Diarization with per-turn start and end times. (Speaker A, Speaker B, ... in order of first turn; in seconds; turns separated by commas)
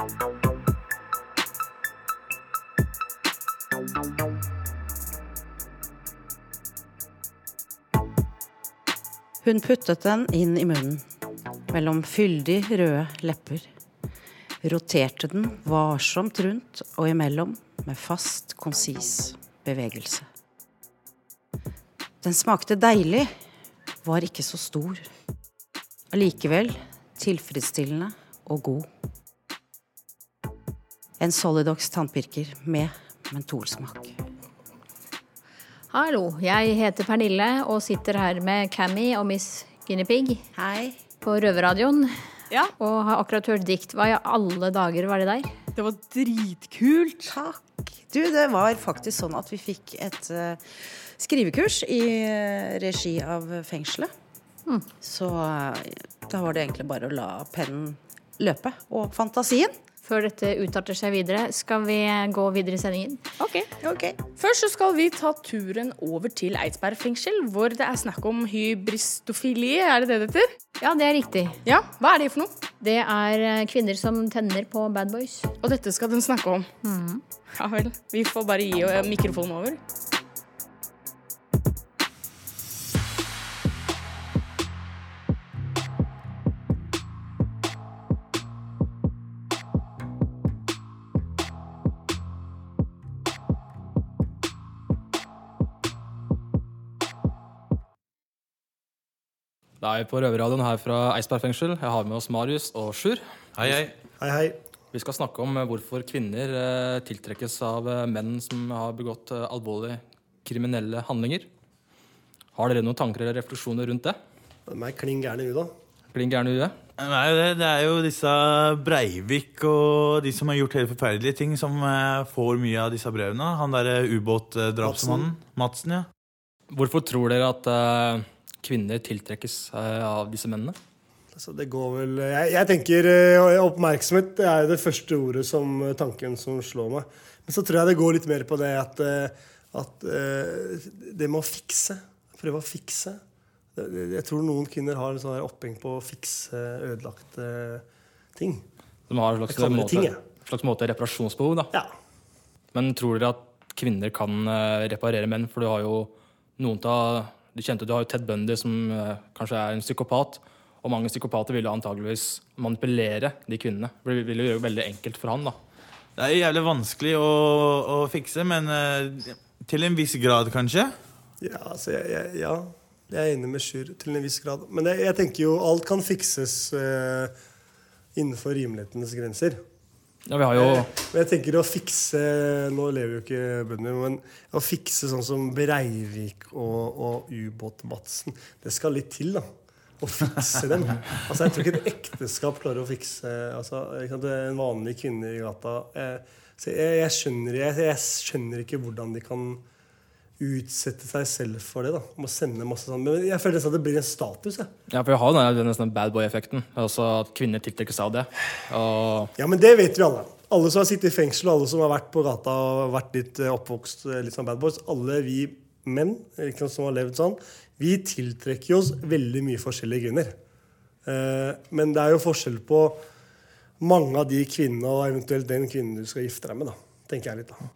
Speaker A: 9.4-11.1, Speaker A: 11.7-13.7, Speaker A: 14.6-20.3, Speaker A: 22.2-23.3, Speaker A: 24.0-25.1, Speaker A: 26.1-28.9, Speaker A: 31.2-34.1, Speaker B: 35.9-40.4, Speaker A: 40.5-41.0, Speaker B: 41.2-42.1, Speaker B: 42.8-45.5, Speaker C: 45.8-47.4, Speaker A: 47.3-54.1, Speaker A: 55.0-59.7, Speaker B: 60.0-63.2, Speaker C: 63.4-63.7, Speaker A: 63.8-64.2, Speaker C: 64.4-70.5, Speaker B: 70.8-71.6, Speaker C: 71.7-72.5, Speaker B: 72.8-75.5, Speaker C: 75.6-76.7, Speaker B: 76.8-77.2, Speaker C: 77.6-79.8, Speaker D: 99.8-103.2, Speaker E: 103.6-104.0, Speaker F: 104.2-104.6, Speaker D: 104.9-111.5, Speaker D: 112.6-114.2, Speaker F: 114.7-115.7, Speaker D: 116.1-116.8, Speaker E: 117.0-126.1, Speaker F: 124.8-125.3, Speaker D: 126.7-130.8, Speaker F: 131.3-143.2, Speaker F: 143.8-147.8, Speaker F: 148.4-148.7, Speaker D: 149.1-151.7, Speaker F: 149.5-150.2, Speaker D: 152.7-165.6, Speaker E: 166.2-170.9, Speaker F: 171.4-177.3, Speaker F: 178.2-179.6, Speaker D: 180.3-180.9, Speaker F: 180.6-189.5, Speaker F: 190.0-199.6, Speaker F: 200.4-204.7, Speaker D: 204.9-209.3, Speaker F: 209.4-220.4, Speaker F: 221.1-223.0, Speaker F: 223.8-227.6